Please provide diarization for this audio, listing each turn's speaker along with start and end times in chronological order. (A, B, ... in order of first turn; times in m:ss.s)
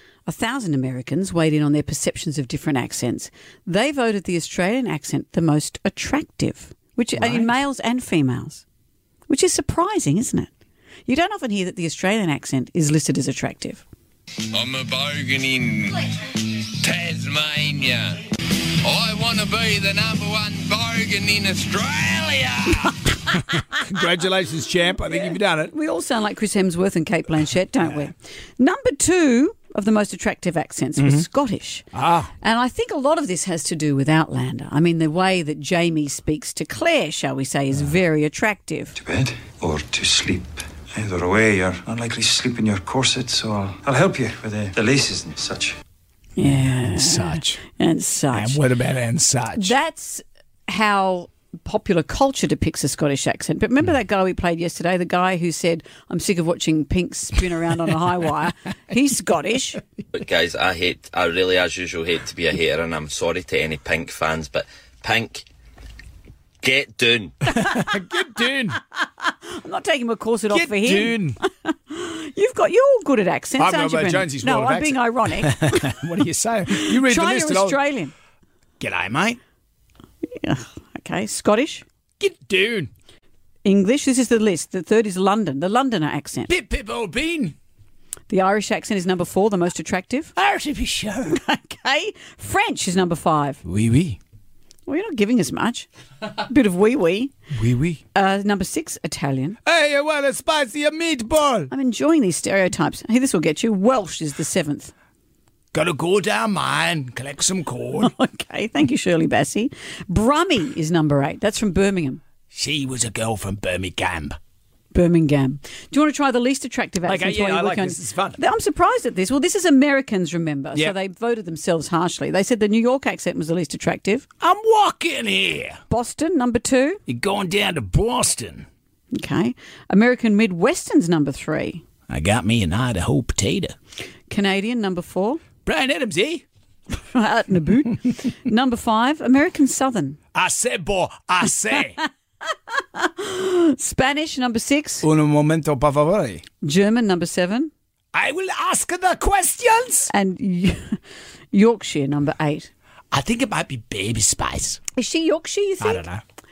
0:00.2-0:08.6 A
0:07.2-0:07.5 B
0:09.3-0:10.5 A
0:11.0-0:13.8 A
0:14.5-0:18.2 C
0:18.8-0:22.9 C
0:23.3-0:25.7 B
0:25.3-0:31.9 A
0:31.0-0:31.2 B
0:31.9-0:32.3 B
0:32.4-0:39.0 A
0:39.0-0:45.8 D
0:46.4-0:48.6 A
0:46.4-0:47.6 B
0:48.3-0:49.7 B
0:49.6-0:59.8 A
1:00.1-1:05.4 E
1:06.6-1:07.4 E
1:07.5-1:08.8 B
1:08.7-1:16.0 A
1:10.5-1:11.4 B
1:13.6-1:17.8 B
1:16.7-1:18.1 A
1:18.8-1:19.4 B
1:20.4-1:21.8 A
1:22.2-1:22.9 B
1:23.6-1:26.5 A
1:26.5-1:27.5 B
1:28.3-1:30.3 A
1:30.4-1:31.4 B
1:31.3-1:33.6 A
1:33.6-1:34.2 B
1:34.9-1:37.3 A
1:37.5-1:38.0 B
1:38.1-1:39.6 A
1:39.6-1:41.7 B
1:41.7-1:44.9 A
1:45.7-1:48.1 B
1:48.0-1:52.2 A
1:52.5-1:54.4 B
1:54.9-2:04.3 A
1:57.0-1:58.4 B
2:04.4-2:05.8 B
2:05.9-2:07.0 A
2:07.1-2:08.7 B
2:09.1-2:11.8 A
2:12.1-2:13.7 B
2:14.3-2:15.4 A
2:15.6-2:16.4 B
2:17.0-2:20.2 A
2:20.3-2:22.0 B
2:22.7-2:25.0 A
2:25.0-2:26.4 B
2:26.6-2:27.7 A
2:28.1-2:30.1 B
2:30.1-2:31.0 A
2:31.5-2:32.7 A
2:33.1-2:34.8 B
2:34.9-2:36.0 A
2:35.8-2:36.2 B